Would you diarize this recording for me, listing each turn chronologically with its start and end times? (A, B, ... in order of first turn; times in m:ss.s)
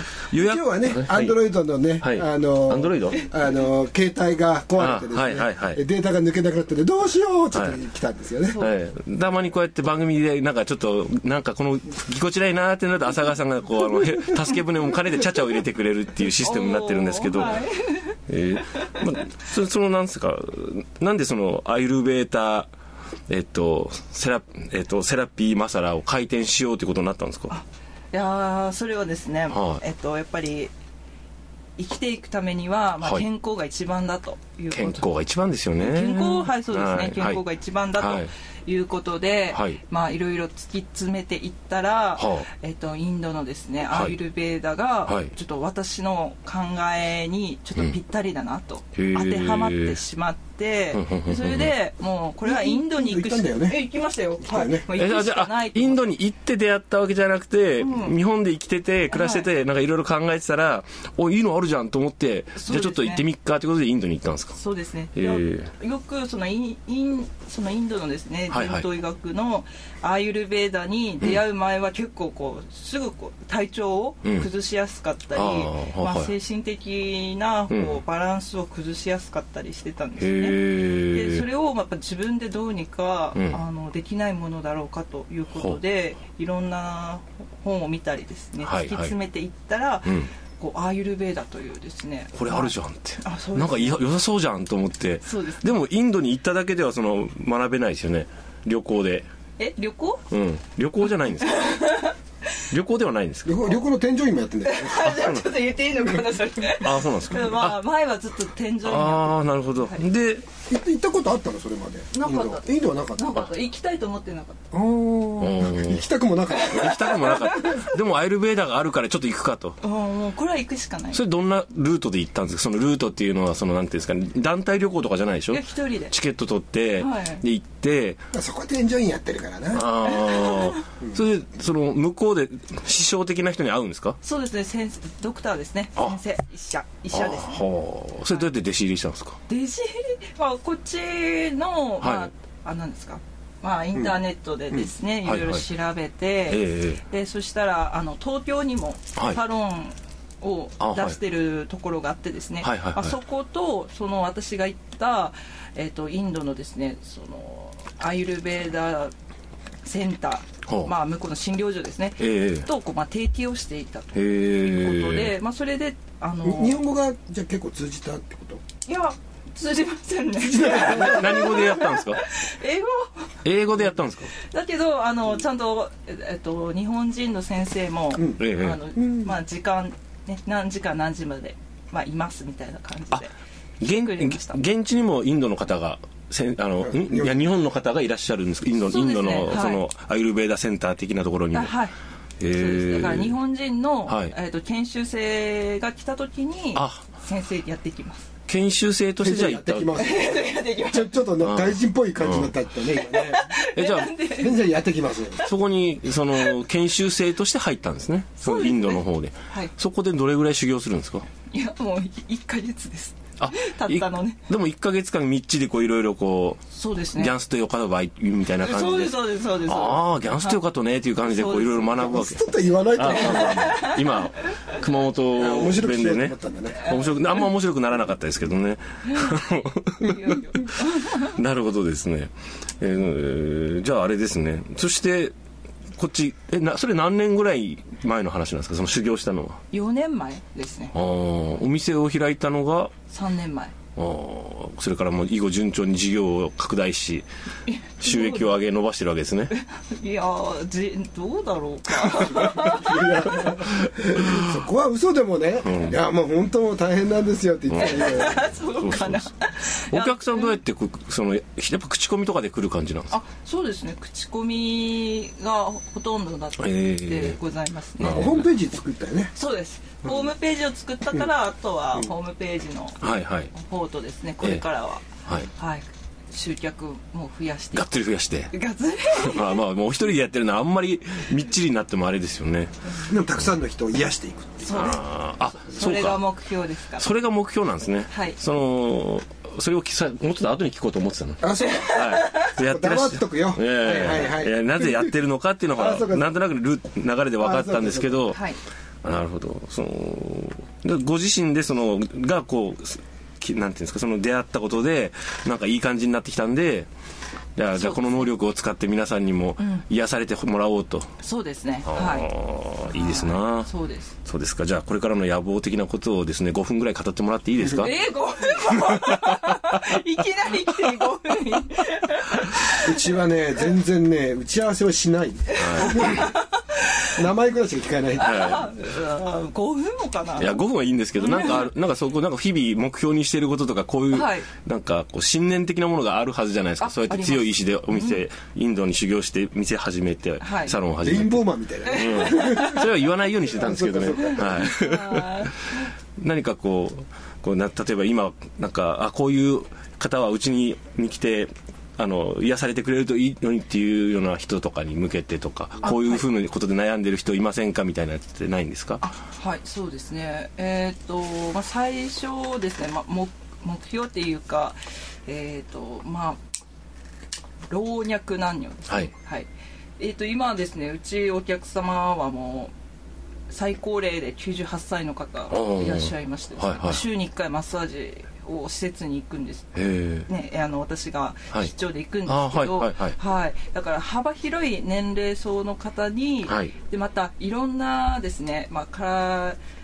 0:00.3-0:01.4 A
0:00.4-0:08.6 B
0:02.0-0:03.3 A
0:04.8-0:05.8 A
0:07.5-0:07.8 A
0:08.5-0:08.8 C
0:08.6-0:17.7 A
0:16.4-0:18.2 C
0:18.3-0:22.7 A
0:18.8-0:19.0 C
0:23.3-0:27.6 A
0:27.5-0:30.7 C
0:29.5-0:29.8 A
0:31.8-0:35.1 C
0:34.7-0:37.4 A
0:35.8-0:56.0 C
0:38.0-0:38.3 A
0:39.5-0:39.8 A
0:42.2-0:42.5 A
0:43.9-0:44.2 A
0:45.1-0:45.3 A
0:49.0-0:50.0 A
0:50.9-0:51.7 A
0:52.4-0:53.8 B
0:54.4-0:54.9 B
0:54.9-1:04.6 A
0:57.8-0:58.1 C
0:59.1-0:59.5 C
1:02.6-1:03.2 C
1:04.5-1:34.0 C
1:05.2-1:05.7 A
1:08.5-1:08.9 A
1:15.3-1:16.3 A
1:17.7-1:18.0 A
1:20.2-1:21.4 A
1:25.5-1:25.8 A
1:28.6-1:29.1 A
1:30.1-1:30.3 A
1:32.4-1:39.3 A
1:35.2-1:35.7 C
1:39.6-1:40.3 C
1:40.3-1:41.9 A
1:41.4-1:42.2 C
1:42.7-1:43.8 A
1:43.4-1:45.1 B
1:44.6-1:50.0 C
1:45.0-1:45.7 A
1:46.7-1:47.8 A
1:48.8-1:50.5 A
1:50.7-1:53.3 B
1:52.1-1:54.6 C
1:54.7-1:57.6 B
1:55.4-1:56.1 A
1:56.6-1:59.8 A
1:56.7-1:57.8 C
1:59.8-2:01.2 C
2:01.1-2:08.2 A
2:05.5-2:06.2 C
2:07.0-2:07.4 C
2:08.3-2:09.9 B
2:09.7-2:14.2 A
2:10.0-2:10.8 C
2:14.2-2:17.6 C
2:17.1-2:19.4 A
2:19.5-2:39.1 C
2:22.0-2:22.3 A
2:25.2-2:25.7 A
2:26.5-2:27.0 A
2:30.8-2:31.2 A
2:32.6-2:33.2 A
2:39.8-2:46.8 C
2:40.7-2:40.9 A
2:42.2-2:42.7 A
2:44.1-2:45.3 A
2:46.4-2:48.6 B
2:48.9-2:53.3 C
2:50.4-2:51.4 B
2:50.6-2:52.2 A
2:53.4-2:54.3 A
2:54.4-3:04.6 C
2:58.1-2:58.4 B
2:58.4-2:58.8 A
2:59.0-2:59.4 B
3:03.8-3:11.7 A
3:06.8-3:07.4 B
3:08.8-3:09.8 C
3:11.5-3:12.0 C
3:12.4-3:13.4 A
3:12.5-3:18.3 C
3:14.1-3:14.3 A
3:16.8-3:17.1 A
3:18.5-3:20.1 A
3:19.2-3:23.5 B
3:20.0-3:21.2 C
3:21.4-3:22.6 A
3:23.0-3:24.6 C
3:23.8-3:24.2 A
3:24.3-3:25.5 B
3:25.4-3:31.3 A
3:28.4-3:29.7 C
3:31.5-3:34.5 C
3:33.4-3:42.4 A
3:36.7-3:37.4 C
3:38.6-3:40.6 C
3:41.3-3:42.0 C
3:42.0-3:43.9 B
3:43.0-3:55.3 A
3:43.1-3:44.0 C
3:45.3-3:46.9 B
3:46.9-3:47.1 C
3:49.1-3:49.4 C
3:50.0-3:51.3 C
3:56.0-3:59.6 A
3:59.7-4:00.9 C
4:00.9-4:02.9 A
4:03.1-4:03.7 C
4:04.0-4:07.3 A
4:07.7-4:08.5 C
4:08.0-4:09.5 A
4:09.5-4:13.1 C
4:12.1-4:18.5 B
4:15.6-4:16.0 A
4:17.7-4:18.2 A
4:17.8-4:20.6 C
4:18.7-4:19.3 A
4:19.9-4:23.2 A
4:23.1-4:28.4 C
4:26.6-4:27.4 A
4:28.0-4:28.4 A
4:28.0-4:29.3 B
4:29.4-4:39.6 C
4:30.0-4:30.3 B
4:33.0-4:33.5 A
4:35.2-4:35.5 A
4:37.7-4:38.5 A
4:39.1-4:42.9 A
4:43.0-4:44.9 B
4:44.6-4:47.1 C
4:44.7-4:46.3 A
4:47.0-4:58.4 A
4:48.1-4:48.4 C
4:51.4-4:55.1 B
4:55.7-4:56.3 B
4:57.4-4:58.2 B
4:58.3-4:58.6 C
4:59.0-5:06.9 A
5:07.6-5:11.1 A
5:07.7-5:08.3 C
5:09.6-5:09.8 C
5:11.2-5:12.3 C
5:11.9-5:13.7 A
5:12.9-5:14.1 C
5:14.2-5:18.0 A
5:17.8-5:23.0 C
5:18.5-5:19.9 A
5:22.8-5:26.3 B
5:25.6-5:26.2 A
5:25.6-5:27.0 C
5:27.2-5:28.7 B
5:28.2-5:30.6 C
5:28.2-5:28.6 A
5:30.4-5:45.5 A
5:31.2-5:31.7 C
5:34.1-5:34.5 C
5:36.8-5:38.2 C
5:40.4-5:40.8 C
5:41.0-5:42.8 B
5:41.9-5:42.8 C
5:43.6-5:44.6 B
5:44.2-5:45.8 C
5:46.2-5:59.0 A
5:55.8-5:56.2 C
5:59.0-6:06.4 C
6:07.7-6:12.7 C
6:13.5-6:19.7 C
6:15.5-6:17.0 A
6:19.8-6:20.3 A
6:20.3-6:29.6 C
6:22.3-6:23.2 A
6:26.5-6:26.7 A